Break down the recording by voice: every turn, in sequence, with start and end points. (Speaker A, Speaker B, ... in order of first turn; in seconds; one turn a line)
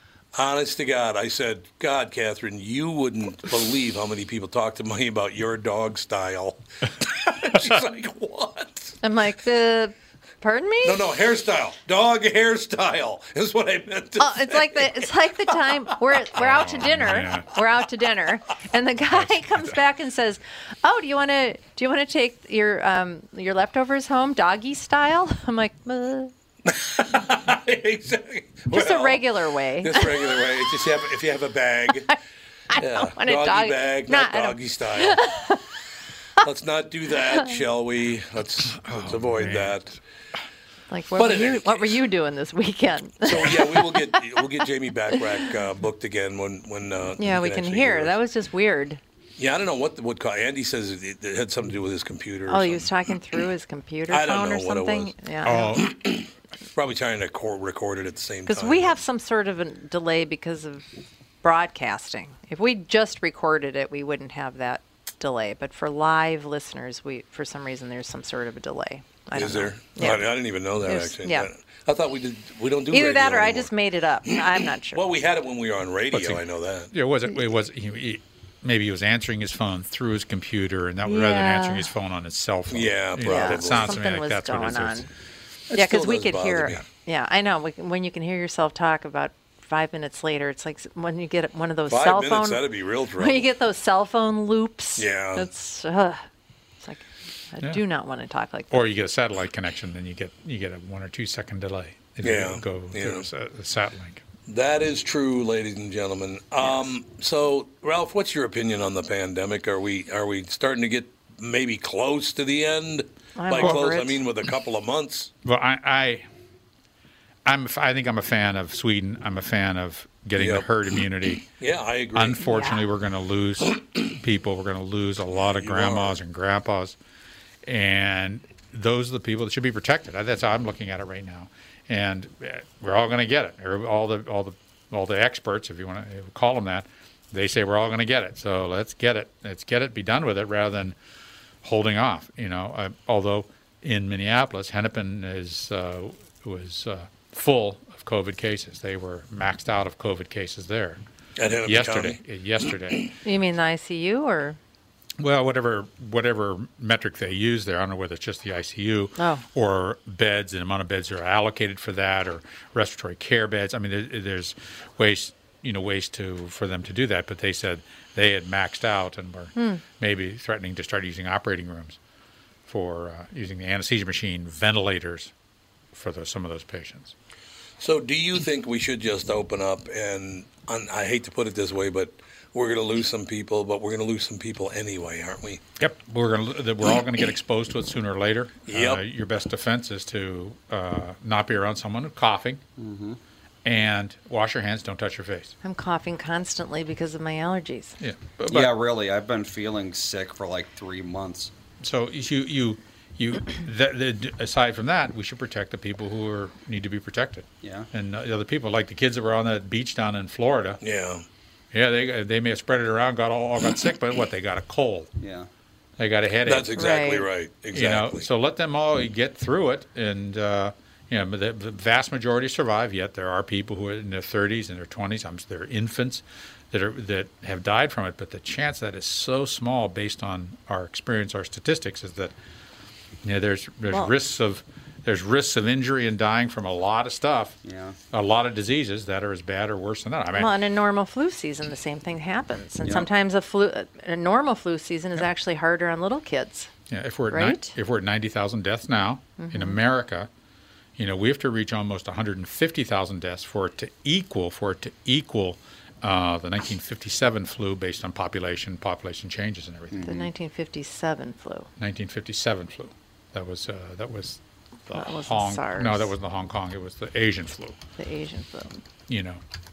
Speaker A: 0.3-9.0
Speaker B: 9.0-11.0
Speaker A: 10.8-15.9
Speaker B: 14.2-26.3
Speaker C: 16.4-17.5
Speaker C: 19.1-19.7
Speaker A: 26.6-29.2
Speaker B: 28.7-30.5
Speaker A: 29.8-32.1
Speaker B: 32.7-35.6
Speaker A: 32.7-35.2
Speaker A: 36.4-40.0
Speaker C: 38.7-39.8
Speaker B: 40.9-44.4
Speaker A: 41.1-42.0
Speaker A: 43.2-48.2
Speaker B: 47.2-49.0
Speaker A: 49.4-52.9
Speaker B: 52.5-55.7
Speaker A: 54.1-55.1
Speaker C: 55.4-55.9
Speaker A: 55.6-59.0
Speaker B: 58.5-60.9
Speaker B: 61.4-71.5
Speaker A: 69.3-73.7
Speaker B: 72.9-75.0
Speaker A: 74.3-76.9
Speaker C: 76.1-85.0
Speaker B: 81.0-81.9
Speaker A: 82.7-84.0
Speaker B: 83.2-85.1
Speaker A: 85.7-86.8
Speaker B: 85.7-92.6
Speaker A: 91.9-93.5
Speaker B: 93.2-96.2
Speaker A: 95.0-95.5
Speaker B: 96.8-98.8
Speaker C: 98.7-104.2
Speaker A: 102.2-103.3
Speaker A: 104.5-115.3
Speaker B: 113.3-114.2
Speaker C: 113.6-113.8
Speaker C: 115.4-116.3
Speaker C: 117.5-121.5
Speaker A: 120.3-120.7
Speaker A: 121.6-122.4
Speaker C: 122.1-127.0
Speaker B: 122.4-122.8
Speaker A: 125.4-126.2
Speaker C: 127.6-140.9
Speaker C: 141.6-151.0
Speaker A: 151.4-152.9
Speaker C: 151.6-153.1
Speaker B: 153.2-154.6
Speaker C: 155.2-172.0
Speaker B: 159.2-159.4
Speaker B: 169.5-169.8
Speaker C: 172.7-175.3
Speaker C: 175.9-177.1
Speaker A: 177.8-185.6
Speaker C: 185.8-192.6
Speaker A: 188.7-189.0
Speaker D: 192.8-193.2
Speaker C: 193.6-195.5
Speaker B: 195.6-197.9
Speaker C: 198.0-198.7
Speaker D: 198.5-201.5
Speaker C: 201.8-210.8
Speaker D: 207.6-207.9
Speaker A: 210.8-211.2
Speaker C: 211.7-215.1
Speaker D: 215.2-215.5
Speaker C: 216.0-216.8
Speaker A: 216.4-218.3
Speaker B: 216.8-217.2
Speaker C: 217.7-232.3
Speaker C: 233.2-237.6
Speaker D: 237.6-238.0
Speaker C: 238.1-240.5
Speaker B: 240.3-246.7
Speaker C: 246.9-250.3
Speaker B: 247.3-247.7
Speaker B: 249.4-249.8
Speaker C: 251.0-260.1
Speaker D: 259.9-260.3
Speaker B: 260.0-261.7
Speaker C: 261.8-267.8
Speaker B: 264.9-266.1
Speaker B: 268.0-268.8
Speaker C: 269.1-269.4